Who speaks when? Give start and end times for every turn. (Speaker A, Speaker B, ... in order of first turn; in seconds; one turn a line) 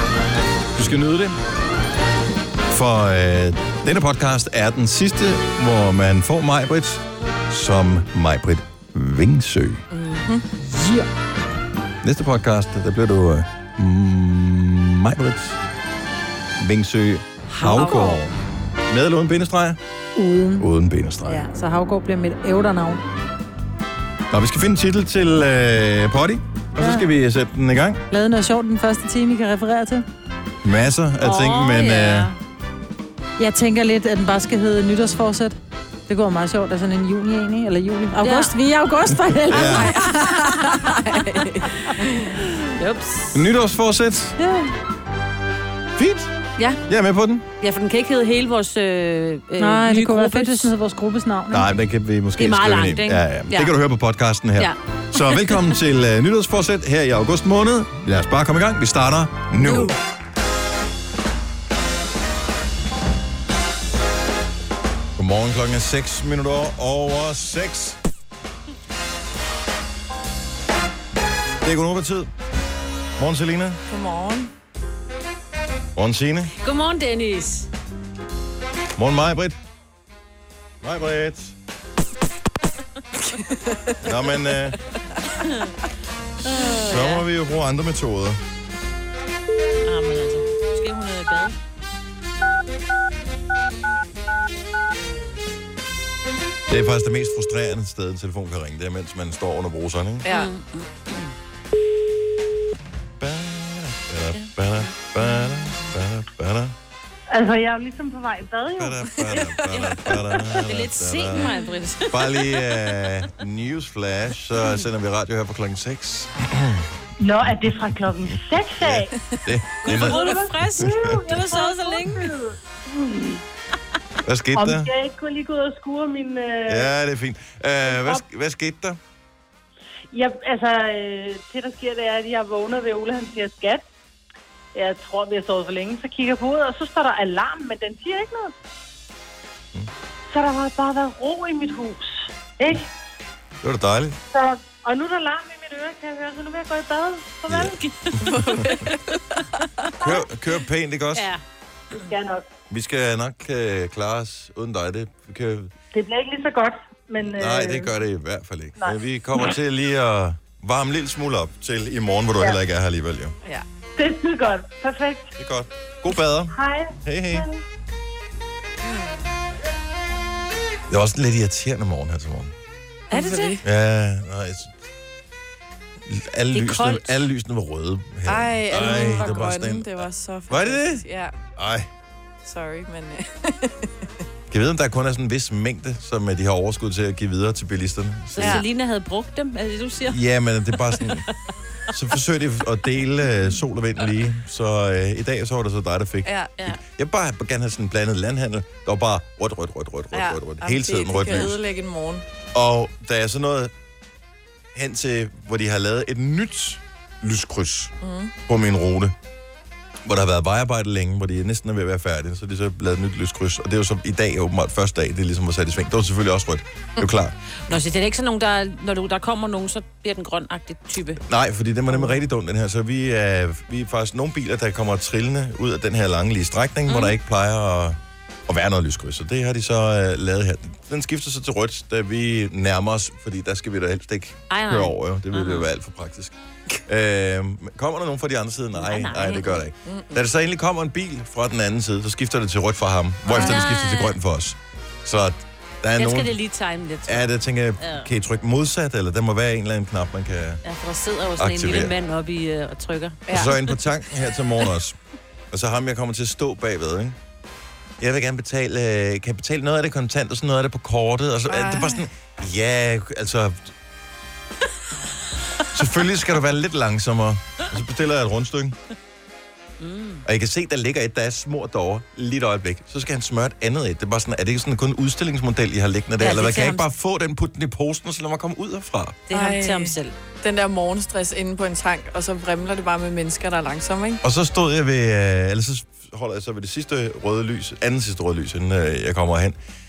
Speaker A: 0.8-1.4
Speaker A: 2.7-9.8
Speaker B: 9.9-10.4
Speaker C: 10.6-11.1
Speaker A: 12.0-15.6
Speaker A: 16.6-18.3
Speaker C: 17.5-18.2
Speaker A: 18.9-19.8
Speaker C: 20.1-20.6
Speaker A: 20.6-21.5
Speaker C: 21.2-23.0
Speaker A: 24.3-28.0
Speaker C: 26.8-27.1
Speaker C: 28.1-30.1
Speaker A: 30.6-32.3
Speaker D: 31.2-32.4
Speaker C: 33.4-39.9
Speaker D: 38.2-38.6
Speaker D: 39.2-40.3
Speaker A: 39.4-40.0
Speaker B: 40.1-41.6
Speaker D: 40.8-41.4
Speaker D: 42.7-43.4
Speaker A: 43.3-44.4
Speaker A: 46.0-46.3
Speaker A: 46.9-47.5
Speaker D: 47.6-50.7
Speaker C: 49.6-51.7
Speaker A: 51.5-60.0
Speaker D: 52.4-53.7
Speaker D: 54.6-55.8
Speaker A: 65.2-68.0
Speaker A: 71.6-72.3
Speaker A: 73.2-73.8
Speaker B: 73.9-74.5
Speaker A: 75.9-76.5
Speaker D: 76.6-77.7
Speaker A: 79.0-79.5
Speaker A: 80.8-81.5
Speaker A: 84.0-84.8
Speaker D: 85.4-85.7
Speaker D: 86.4-87.2
Speaker A: 86.8-88.4
Speaker D: 89.8-91.5
Speaker A: 96.7-100.2
Speaker B: 100.2-100.5
Speaker D: 100.2-101.3
Speaker A: 103.2-106.7
Speaker E: 107.3-109.0
Speaker A: 108.8-116.8
Speaker B: 109.2-109.8
Speaker D: 109.7-109.9
Speaker D: 110.6-112.7
Speaker E: 117.2-119.1
Speaker A: 118.8-121.2
Speaker D: 119.8-122.3
Speaker E: 119.9-123.4
Speaker A: 124.2-124.9
Speaker E: 124.5-126.9
Speaker A: 126.7-129.0
Speaker E: 127.9-128.2
Speaker E: 130.1-133.9
Speaker E: 134.7-138.5
Speaker E: 140.3-142.9
Speaker A: 143.6-144.2
Speaker E: 144.3-147.9
Speaker A: 147.5-148.8
Speaker B: 148.2-148.8
Speaker E: 148.6-148.9
Speaker A: 150.0-151.3
Speaker D: 151.1-151.4
Speaker E: 152.0-152.4
Speaker A: 152.7-155.7
Speaker E: 155.9-157.9
Speaker A: 157.3-163.3
Speaker E: 163.9-165.3
Speaker A: 165.4-167.5
Speaker E: 166.5-167.6
Speaker A: 170.9-172.5
Speaker D: 173.1-173.6
Speaker B: 173.1-173.6
Speaker A: 173.6-174.7
Speaker A: 176.0-181.0
Speaker D: 176.5-177.2
Speaker B: 178.2-181.3
Speaker D: 178.8-179.4
Speaker A: 181.6-181.9
Speaker B: 182.4-183.9
Speaker A: 184.5-188.6
Speaker D: 188.3-190.2
Speaker B: 188.4-188.6
Speaker A: 190.1-191.2
Speaker A: 191.9-201.6
Speaker B: 196.2-196.5
Speaker B: 200.1-202.2
Speaker A: 202.5-203.7
Speaker A: 204.7-207.9
Speaker B: 208.0-208.3
Speaker A: 208.5-209.1
Speaker A: 210.0-217.3
Speaker D: 217.7-221.2
Speaker A: 221.2-236.3
Speaker D: 226.9-227.2
Speaker D: 234.5-235.7
Speaker A: 236.9-246.3
Speaker D: 238.7-239.6
Speaker B: 239.9-240.2
Speaker D: 243.2-244.1
Speaker D: 246.0-248.1
Speaker A: 247.1-250.6
Speaker D: 250.6-253.6
Speaker A: 251.4-251.9
Speaker B: 253.3-253.5
Speaker A: 253.3-254.9
Speaker A: 255.5-257.2
Speaker A: 258.0-263.7
Speaker B: 261.5-262.0
Speaker A: 265.7-268.8
Speaker D: 269.8-270.2
Speaker A: 270.2-279.2
Speaker D: 276.2-276.8
Speaker D: 279.3-280.1
Speaker B: 279.3-284.2
Speaker A: 284.2-289.6